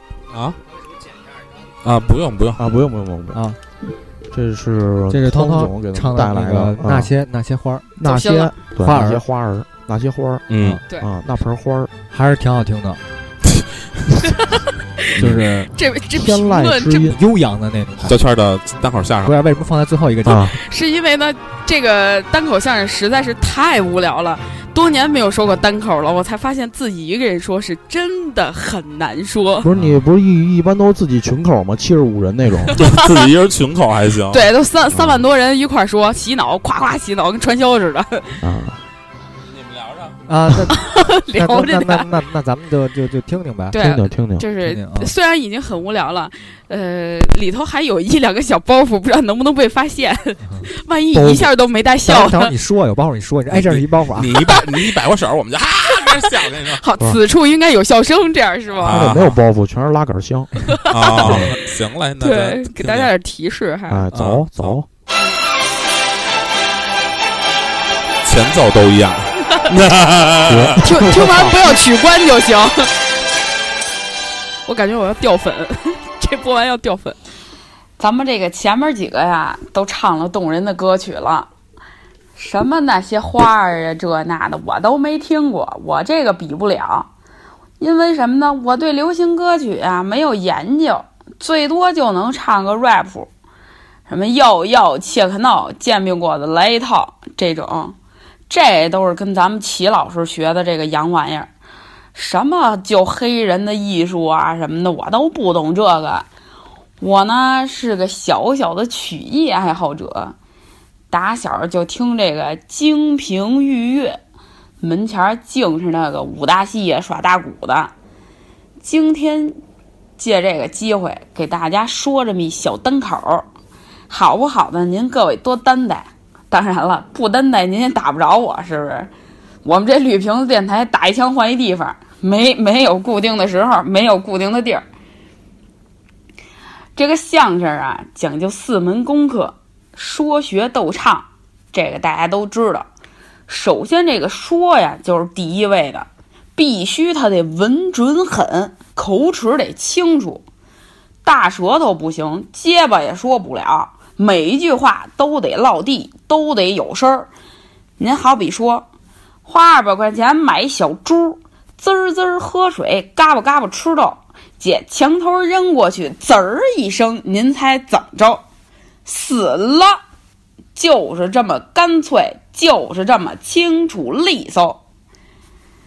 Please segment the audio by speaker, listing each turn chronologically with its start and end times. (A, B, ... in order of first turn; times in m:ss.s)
0:00.3-0:00.6 A
0:01.8-0:02.6 A
0:02.6-0:03.4 B
0:04.3-0:07.1 B
0:05.1-0:07.9 C
0:08.0-0:11.9 B
0:08.0-0:08.5 D
0:08.8-0:09.2 C
0:10.5-0:10.8 A
0:12.1-0:13.0 C
0:15.2-0:15.7 C
0:15.8-0:17.1 D
0:16.1-0:17.2 B
0:17.1-0:18.2 C
0:18.1-0:19.3 A
0:19.2-0:20.5 C
0:20.2-0:20.6 B
0:20.5-0:29.7 D
0:29.6-0:32.8 B
0:29.7-0:30.0 C
0:32.7-0:33.3 D
0:32.8-0:34.5 A
0:34.3-0:38.4 D
0:34.9-0:35.2 B
0:38.4-0:38.8 B
0:39.5-0:40.2 A
0:40.3-0:43.9 C
0:40.7-0:42.1 D
0:43.7-0:52.5 D
0:43.8-0:44.5 B
0:44.6-0:45.1 C
0:50.5-0:51.4 C
0:51.2-0:51.5 B
0:52.1-0:54.3 C
0:53.5-0:56.8 A
0:56.0-0:59.0 D
0:58.8-0:59.4 A
0:58.8-1:00.5 B
1:00.7-1:01.3 D
1:00.9-1:03.1 A
1:01.1-1:01.6 B
1:02.2-1:04.1 D
1:03.9-1:04.9 B
1:04.1-1:04.8 A
1:08.2-1:10.8 A
1:10.5-1:11.7 B
1:10.8-1:12.9 D
1:14.7-1:17.2 D
1:18.0-1:21.5 E
1:22.4-1:27.1 E
1:27.8-1:33.3 E
1:34.1-1:38.0 E
1:38.5-1:41.5 E
1:42.1-1:46.3 E
1:47.0-1:50.4 E
1:51.1-1:54.2 E
1:54.8-1:57.9 E
1:58.8-1:59.6 E
2:00.2-2:03.5 E
2:04.1-2:09.1 E
2:09.6-2:14.8 E
2:17.0-2:22.9 E
2:23.5-2:30.4 E
2:31.2-2:37.3 E
2:38.0-2:38.9 E
2:39.5-2:48.4 E
2:49.1-2:50.0 E
2:50.8-2:54.8 E